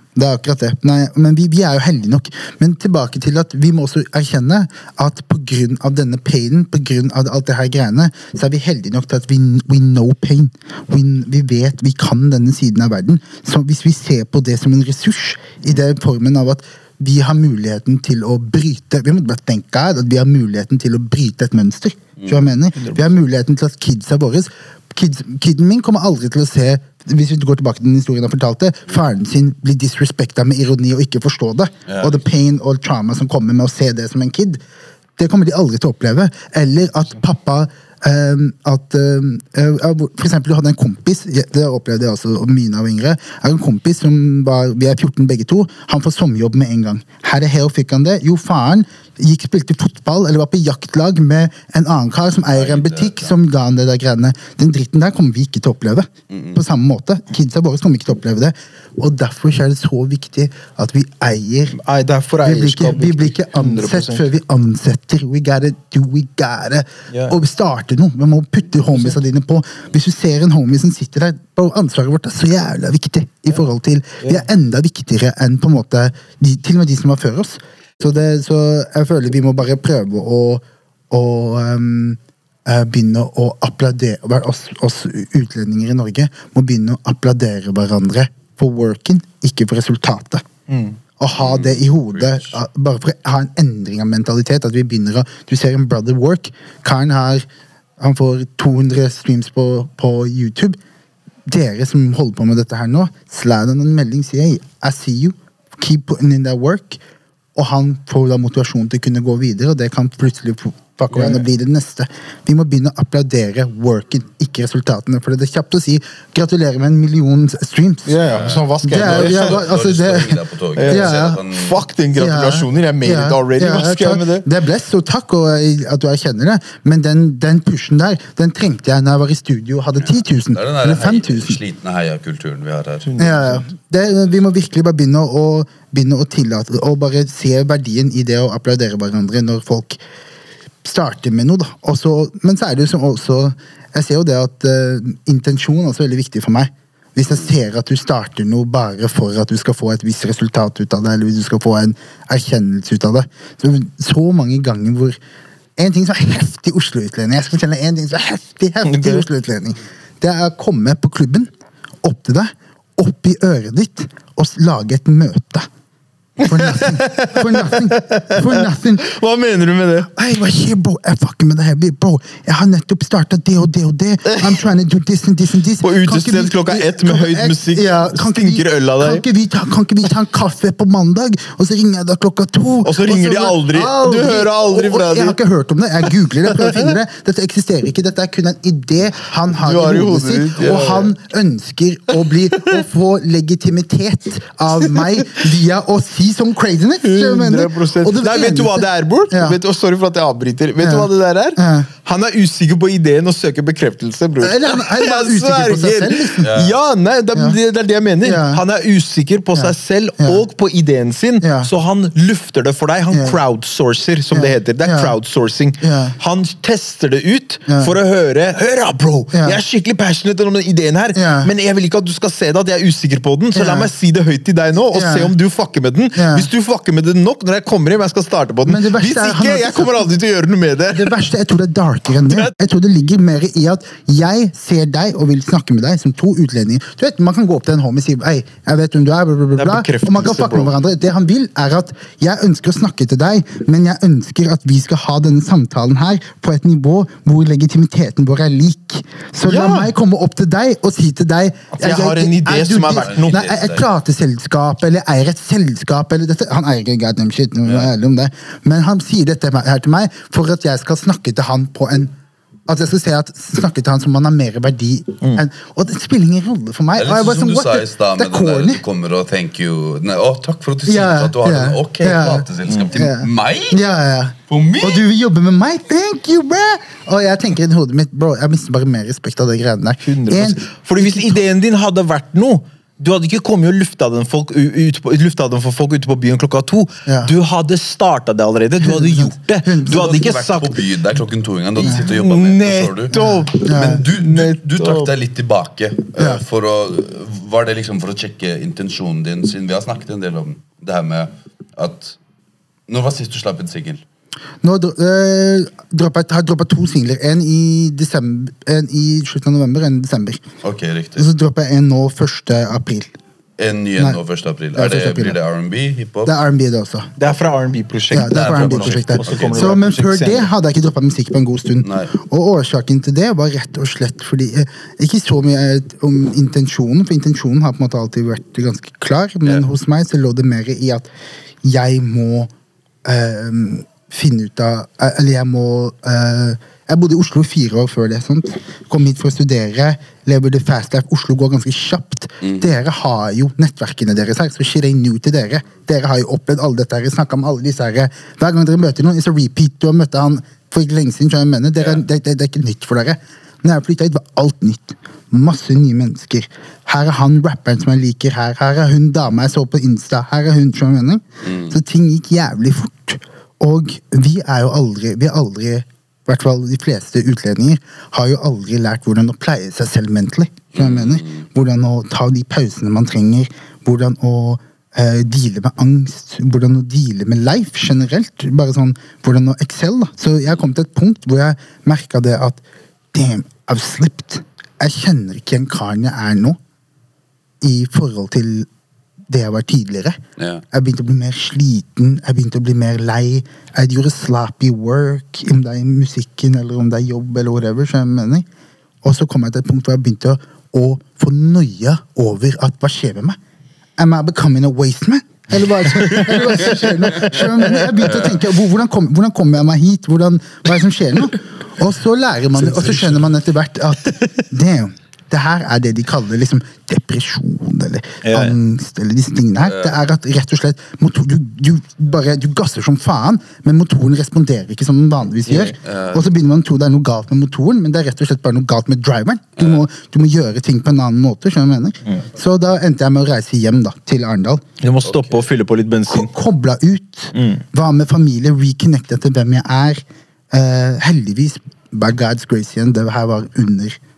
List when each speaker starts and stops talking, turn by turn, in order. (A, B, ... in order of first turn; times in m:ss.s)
0:00.2-0:34.6 A
0:22.2-0:22.4 B
0:22.8-0:23.2 C
0:31.9-0:32.2 B
0:35.2-1:01.8 A
0:52.5-0:53.3 B
0:56.3-0:56.6 B
1:01.7-1:04.3 C
1:02.4-1:30.4 A
1:07.1-1:07.4 C
1:08.9-1:09.2 C
1:30.7-1:31.0 C
1:31.2-1:37.4 A
1:31.4-1:32.5 B
1:38.0-1:40.8 A
1:41.5-1:47.0 A
1:47.6-1:58.2 A
1:51.1-1:51.5 C
1:58.1-1:59.7 C
1:58.3-2:01.8 B
1:58.8-2:01.4 A
2:00.8-2:04.5 C
2:02.2-2:11.6 A
2:10.0-2:13.1 B
2:13.0-2:13.6 C
2:13.2-2:20.0 A
2:20.8-2:35.2 A
2:35.8-2:41.5 A
2:38.8-2:39.3 C
2:42.0-2:45.7 A
2:46.4-2:50.1 C
2:46.4-2:49.1 A
2:50.1-3:19.6 A
2:54.2-2:54.7 C
2:55.8-2:59.2 C
3:02.8-3:05.4 C
3:06.0-3:07.0 C
3:09.6-3:11.1 C
3:12.3-3:12.8 C
3:14.9-3:15.2 C
3:17.0-3:51.2 C
3:20.8-3:21.9 A
3:24.4-3:26.5 A
3:26.4-3:26.7 B
3:28.2-3:28.6 A
3:29.5-3:30.4 A
3:31.4-3:31.7 A
3:33.1-3:33.4 A
3:34.3-3:35.2 A
3:35.8-3:36.2 A
3:37.7-3:37.9 A
3:39.3-3:39.6 A
3:41.2-3:41.5 A
3:43.5-3:43.9 A
3:44.9-3:45.3 A
3:46.1-3:46.5 A
3:48.7-3:50.1 A
3:50.9-4:22.1 A
3:59.6-4:00.8 C
4:09.4-4:09.9 C
4:11.7-4:13.5 C
4:12.9-4:13.9 B
4:17.6-4:17.9 B
4:22.7-4:28.8 A
4:27.0-4:33.8 B
4:30.9-4:41.4 A
4:32.7-4:32.9 C
4:34.5-4:35.0 B
4:40.0-4:50.8 C
4:47.1-4:47.3 A
4:48.8-4:50.0 A
4:49.9-5:02.2 B
4:51.8-4:55.1 C
4:53.1-4:54.0 A
4:56.2-4:56.4 A
5:02.9-5:04.0 B
5:04.6-5:10.4 A
5:10.6-5:11.3 B
5:11.2-5:13.2 A
5:13.6-5:16.3 B
5:14.8-5:15.4 A
5:16.2-5:17.1 A
5:17.2-5:20.5 C
5:18.1-5:31.1 A
5:18.2-5:20.0 B
5:21.8-5:22.1 B
5:31.6-5:32.5 A
5:33.0-6:22.6 A
5:42.4-5:42.8 B
6:01.4-6:01.8 B
6:10.8-6:11.4 B
6:23.1-6:26.6 A
6:27.6-6:28.7 A
6:29.3-6:30.2 A
6:30.4-6:30.6 B
6:30.7-6:38.5 A
6:39.0-6:43.4 A
6:44.0-7:14.6 A
6:45.8-6:48.4 C
6:52.5-6:53.3 C
6:58.2-6:58.6 C
6:59.6-7:00.0 B
7:05.5-7:05.7 C
7:05.8-7:06.3 B
7:09.6-7:09.8 B
7:14.8-7:16.3 C
7:15.0-7:15.4 B
7:16.1-7:24.0 A
7:17.3-7:17.6 C